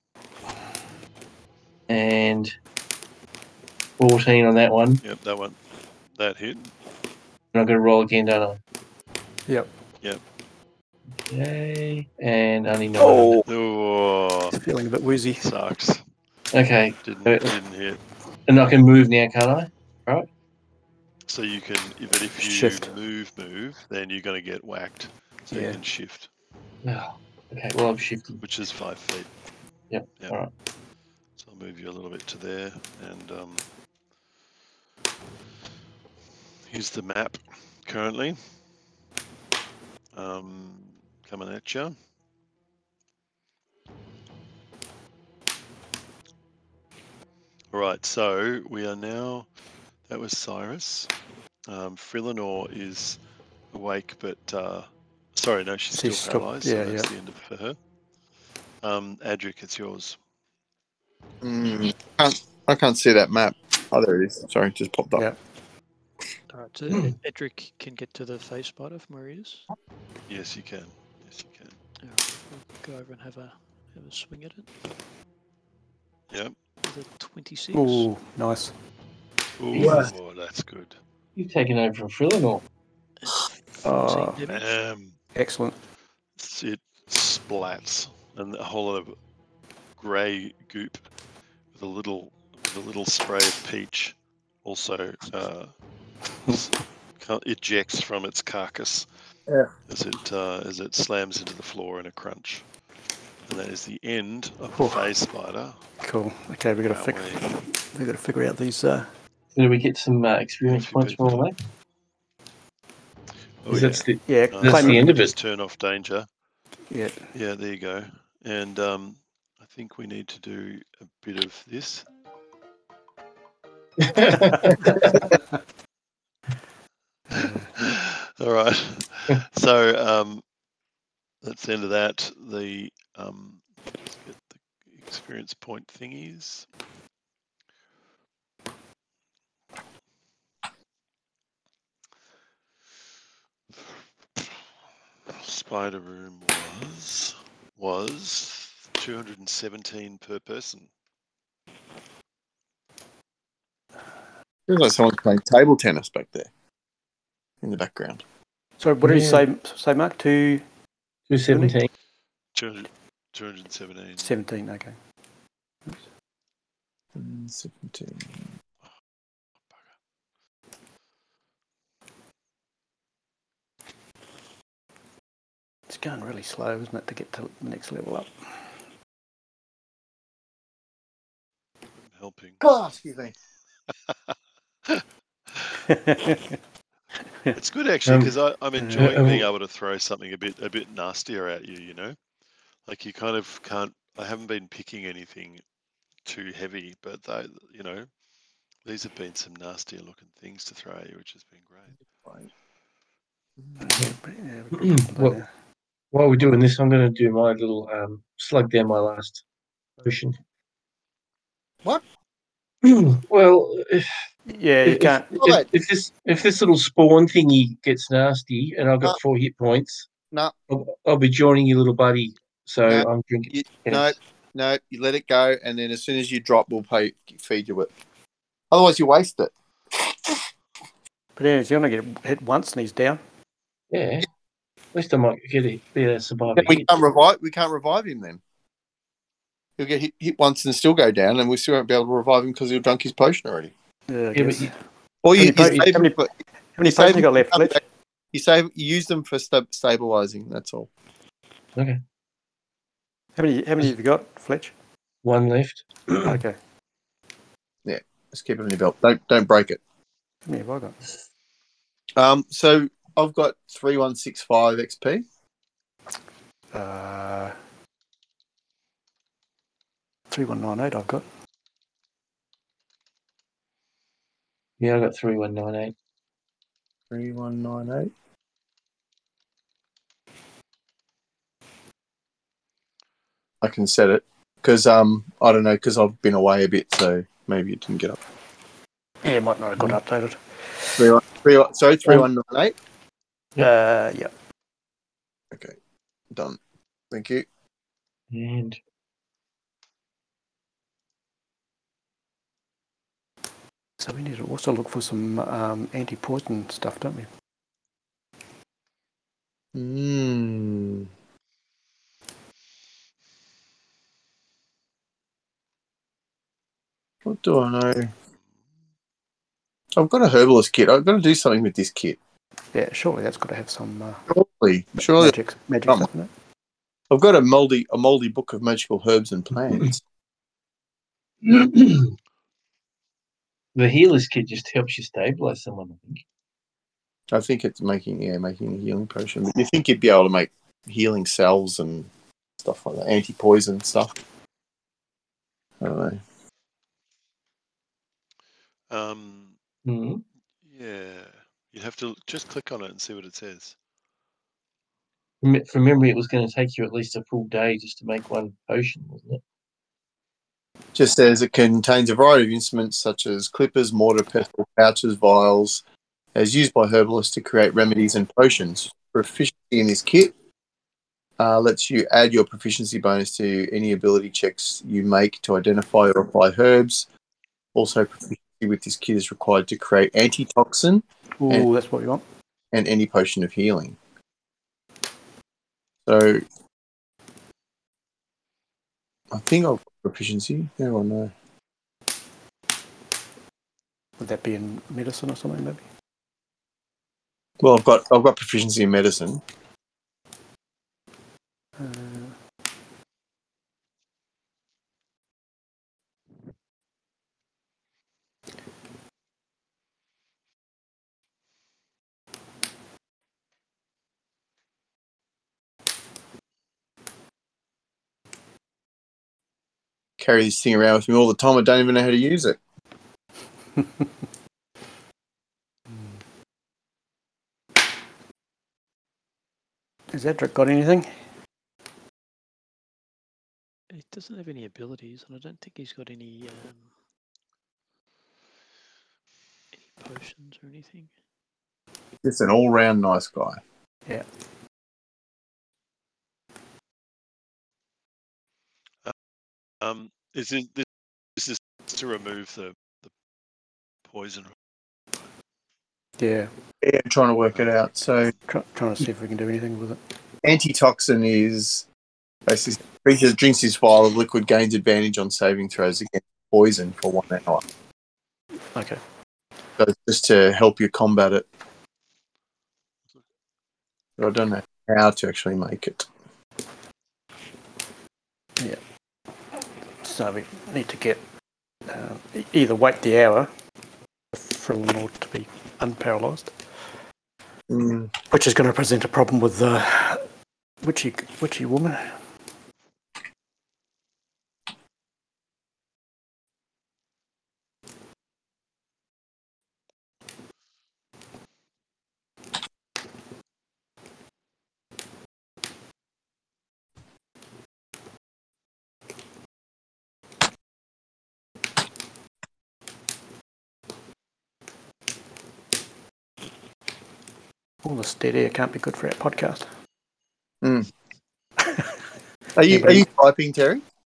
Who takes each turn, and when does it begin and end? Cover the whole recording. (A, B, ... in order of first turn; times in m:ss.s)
0:01.9-0:02.5 A
0:04.0-0:05.0 A
0:05.0-0:05.6 B
0:06.2-0:06.7 B
0:07.5-0:08.6 A
0:11.3-0:13.4 A
0:13.0-0:13.4 C
0:13.4-0:14.6 B
0:14.5-0:15.5 C
0:15.4-0:16.0 B
0:16.5-0:17.6 A
0:17.0-0:18.0 B
0:18.5-0:20.3 A
0:21.3-0:26.3 B
0:22.4-0:23.0 C
0:25.5-0:25.8 C
0:26.8-0:28.4 A
0:28.4-0:29.3 B
0:29.9-0:30.5 A
0:31.4-0:33.6 B
0:36.7-0:38.4 B
0:40.1-0:42.0 B
0:47.7-0:49.5 B
0:50.1-0:51.1 B
0:51.7-0:53.2 B
0:53.7-0:57.8 B
0:55.9-0:57.1 C
0:58.8-1:00.2 B
1:01.4-1:05.3 D
1:06.5-1:09.7 E
1:06.9-1:07.2 A
1:10.3-1:11.8 B
1:12.0-1:14.7 E
1:16.3-1:16.6 B
1:16.8-1:18.1 E
1:17.7-1:18.7 C
1:19.6-1:21.0 B
1:19.7-1:20.1 A
1:19.8-1:20.1 D
1:21.4-1:22.6 A
1:23.2-1:24.6 E
1:23.8-1:24.4 C
1:24.4-1:25.2 B
1:25.4-1:25.8 C
1:26.4-1:29.2 B
1:30.0-1:31.1 B
1:31.7-1:35.7 B
1:36.5-1:39.1 B
1:39.9-1:42.6 B
1:43.5-1:45.8 B
1:44.8-1:45.1 C
1:46.0-1:49.1 C
1:46.9-1:47.4 B
1:49.5-1:51.6 A
1:50.7-1:51.5 B
1:53.6-1:56.3 B
1:53.7-1:55.3 A
1:54.3-1:55.1 C
1:56.9-1:57.3 C
1:57.3-2:02.1 B
2:04.0-2:05.3 A
2:07.3-2:07.7 C
2:07.4-2:10.4 B
2:11.4-2:13.6 B
2:14.2-2:16.7 B
2:25.3-2:30.9 B
2:34.7-2:36.5 D
2:37.6-2:38.2 D
2:38.8-2:40.6 C
2:39.0-2:39.4 A
2:41.3-2:41.9 A
2:41.5-2:41.8 C
2:42.6-2:44.4 B
2:44.2-2:45.0 C
2:47.2-2:48.5 D
2:55.9-2:58.6 C
3:02.0-3:02.6 B
3:02.6-3:03.4 D
3:05.9-3:06.6 C
3:07.6-3:12.2 B
3:08.1-3:08.3 A
3:08.8-3:09.1 C
3:09.0-3:09.5 A
3:12.9-3:15.6 B
3:16.2-3:18.1 B
3:18.8-3:21.9 B
3:23.8-3:25.5 C
3:24.7-3:25.4 A
3:26.1-3:29.4 A
3:30.0-3:30.4 A
3:32.8-3:34.1 A
3:34.5-3:35.4 C
3:34.8-3:40.1 A
3:35.4-3:35.7 D
3:40.7-3:44.2 A
3:42.9-3:47.9 D
3:48.7-3:50.4 D
3:51.4-3:53.2 C
3:53.9-3:54.3 A
3:54.9-3:56.9 A
3:56.6-3:58.4 D
3:59.8-4:03.7 D
4:04.1-4:04.8 C
4:04.3-4:04.7 A
4:05.2-4:06.3 D
4:05.3-4:06.2 C
4:05.6-4:05.8 A
4:06.8-4:07.8 C
4:06.9-4:07.8 D
4:08.3-4:10.9 D
4:13.4-4:14.7 C
4:15.2-4:16.4 A
4:16.2-4:16.6 C
4:17.8-4:19.8 D
4:20.5-4:21.0 C
4:22.2-4:25.2 D
4:26.7-4:27.6 C
4:30.3-4:31.2 C
4:34.8-4:35.9 A
4:37.1-4:38.1 D
4:43.6-4:48.2 D
4:49.2-4:51.1 C
4:51.0-4:52.8 D
4:53.6-4:54.3 C
4:55.5-4:55.8 D
4:56.3-4:56.6 D
4:57.1-4:57.5 D
4:58.3-4:58.8 A
5:04.0-5:07.3 C
5:09.8-5:11.1 D
5:17.2-5:18.1 D
5:20.0-5:22.2 D
5:22.7-5:24.2 C
5:24.3-5:25.4 D
5:25.1-5:26.3 C
5:27.1-5:30.0 D
5:31.4-5:32.2 A
5:33.8-5:36.2 A
5:37.3-5:44.2 D
5:45.8-5:46.2 D
5:48.9-5:49.6 B
5:49.9-5:50.2 A
5:50.6-5:53.8 B
5:55.4-5:59.4 A
6:01.0-6:05.8 D
6:06.4-6:10.3 D
6:11.4-6:17.1 D
6:17.8-6:21.7 D
6:21.4-6:22.2 C
6:22.7-6:24.0 D
6:26.1-6:26.4 D
6:29.3-6:31.3 D
6:34.2-6:35.8 C
6:37.6-6:39.4 D
6:41.8-6:42.3 C
7:00.2-7:02.6 D
7:03.8-7:04.0 C
7:10.1-7:11.1 C
7:13.9-7:16.9 E
7:19.9-7:21.1 E
7:22.2-7:23.6 D
7:29.8-7:30.9 B
7:31.4-7:33.1 B
7:34.1-7:34.5 B
7:36.2-7:36.5 C
7:36.8-7:38.3 D
7:38.5-7:40.0 C
7:40.4-7:41.9 D
7:42.5-7:47.6 D
7:48.8-7:49.0 C
7:49.8-7:51.5 D
7:54.2-7:56.1 D
8:00.0-8:01.2 C
8:01.9-8:03.5 C
8:04.3-8:06.5 C
8:07.7-8:08.1 D
8:08.3-8:10.2 C
8:10.8-8:12.2 C
8:37.8-8:39.7 C
8:40.6-8:40.9 D
8:41.6-8:42.0 C
8:42.6-8:43.8 D
8:42.7-8:43.1 C